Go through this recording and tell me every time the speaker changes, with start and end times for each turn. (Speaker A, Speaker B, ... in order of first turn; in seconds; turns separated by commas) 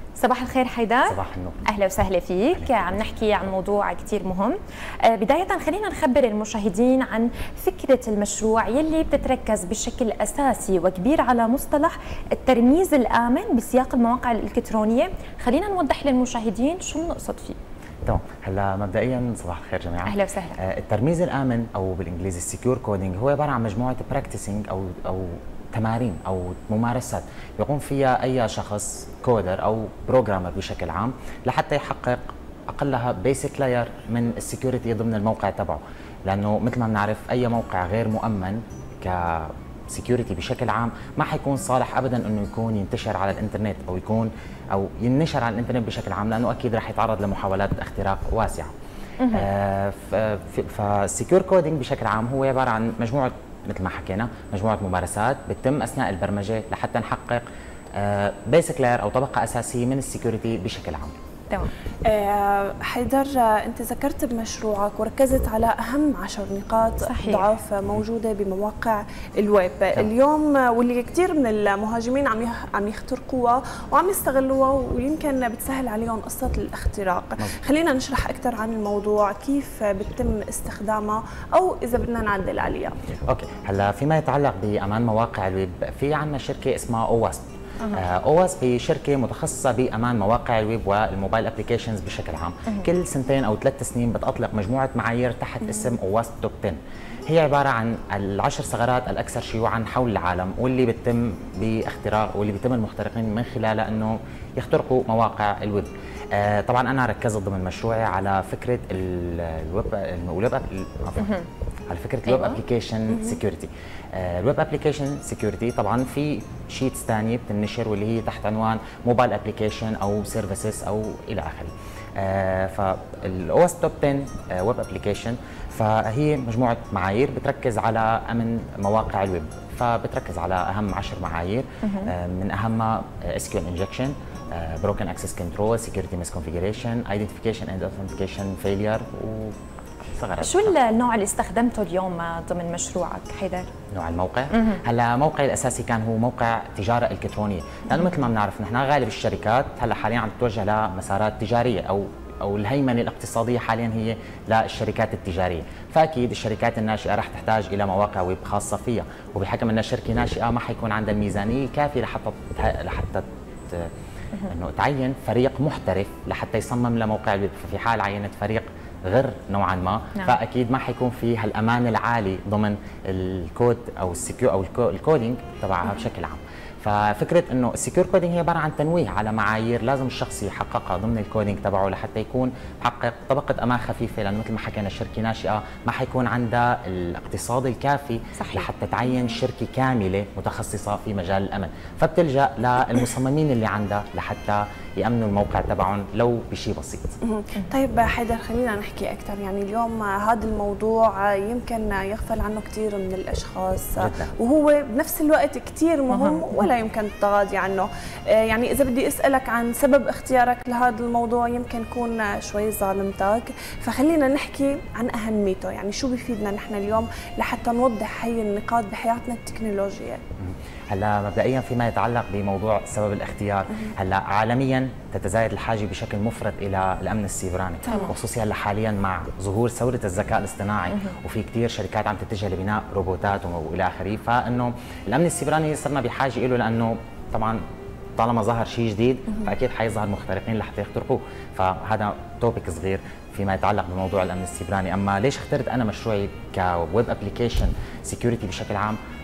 Speaker A: 0.1-17.6, Speaker B: 1.1-1.6, Speaker B: 2.5-3.1, Speaker B: 18.1-48.7, Speaker A: 20.0-20.6, Speaker A: 49.2-49.5, Speaker B: 49.3-57.4, Speaker B: 58.0-61.1, Speaker C: 62.0-83.0, Speaker A: 67.0-67.5, Speaker B: 83.3-139.5, Speaker A: 111.2-111.5, Speaker A: 112.2-112.6, Speaker A: 131.8-132.1, Speaker B: 140.1-140.7, Speaker A: 140.4-143.7, Speaker B: 143.9-163.9, Speaker A: 144.5-144.8, Speaker B: 164.4-197.2, Speaker A: 188.4-188.7, Speaker C: 197.2-220.2, Speaker B: 204.0-204.3, Speaker A: 206.1-206.7, Speaker B: 220.4-237.6, Speaker A: 227.9-228.1, Speaker B: 238.2-249.0